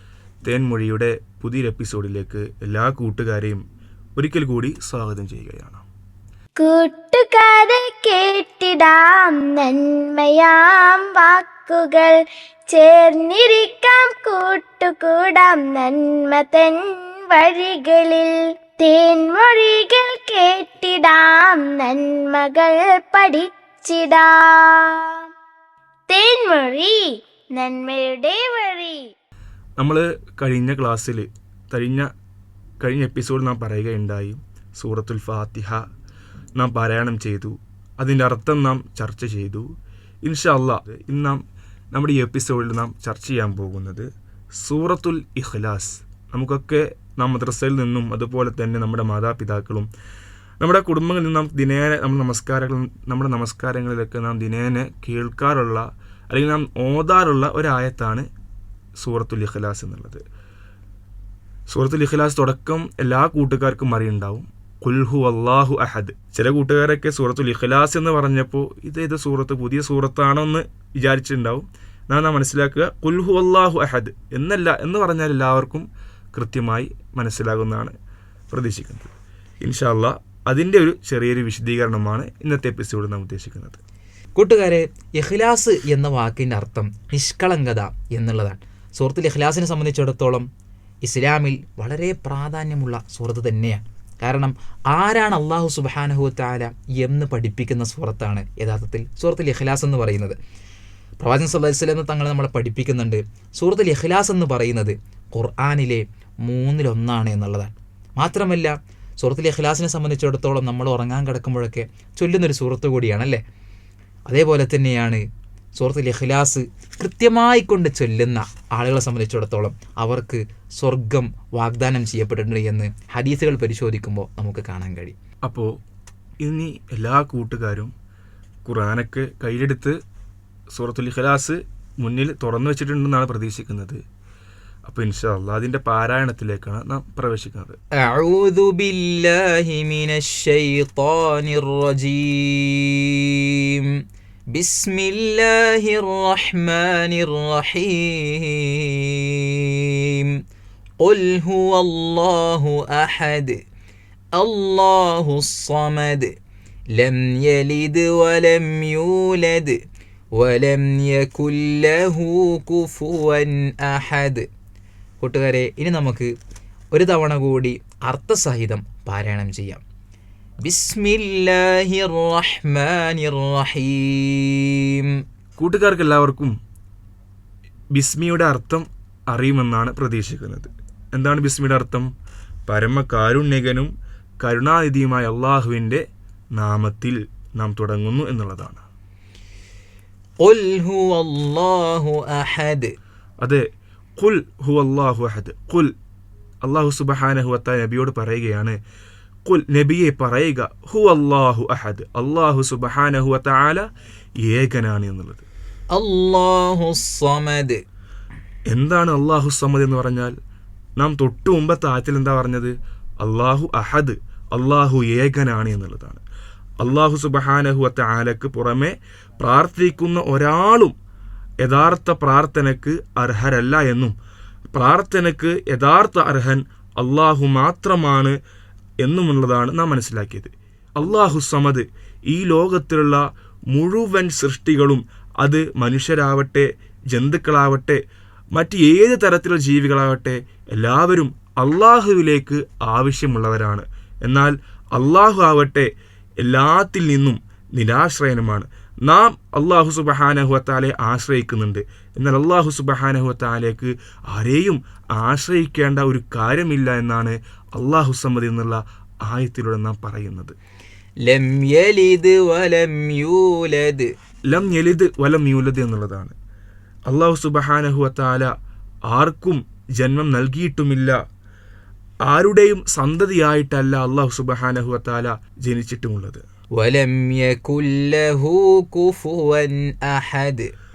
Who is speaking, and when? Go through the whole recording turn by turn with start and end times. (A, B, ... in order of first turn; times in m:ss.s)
0:00.4-0:03.6 A
0:04.2-0:05.8 A
0:06.6-0:12.2 B
0:12.7-0:25.2 B
0:26.1-0:29.1 B
0:29.8-0:32.1 A
0:32.8-0:35.8 A
0:36.6-0:39.7 A
0:40.2-0:41.4 A
0:41.9-0:44.1 A
0:44.6-0:49.9 A
0:50.6-0:58.3 A
0:59.0-1:00.2 A
1:01.7-1:17.9 A
1:18.5-1:23.8 A
1:24.4-1:30.5 C
1:31.1-1:40.4 C
1:41.2-1:53.4 C
1:54.3-1:55.2 C
1:55.8-2:05.2 C
2:06.4-2:07.9 A
2:08.6-2:10.0 A
2:10.7-2:14.0 A
2:14.8-2:17.8 A
2:18.0-2:23.8 C
2:24.6-2:30.3 C
2:31.0-2:33.6 C
2:34.4-2:36.3 C
2:37.0-2:39.8 C
2:40.4-2:44.4 C
2:45.2-2:46.3 C
2:46.9-2:49.8 C
2:50.6-2:55.0 C
2:55.6-2:56.5 A
2:57.9-3:02.1 A
3:02.7-3:06.0 A
3:06.6-3:08.8 A
3:10.4-3:12.9 C
3:14.2-3:15.9 A
3:16.6-3:18.8 A
3:19.5-3:23.8 A
3:24.5-3:25.5 A
3:25.9-3:27.8 C
3:28.7-3:30.3 A
3:31.0-3:36.2 A
3:36.8-3:40.9 A
3:41.6-3:44.1 A
3:44.7-3:48.4 A
3:49.0-3:53.2 A
3:53.7-3:58.0 A
3:58.5-4:05.9 A
4:06.4-4:20.6 A
4:21.2-4:24.1 C
4:24.5-4:26.4 A
4:27.1-4:28.5 A
4:29.1-4:31.2 A
4:32.3-4:36.4 A
4:36.8-4:40.7 C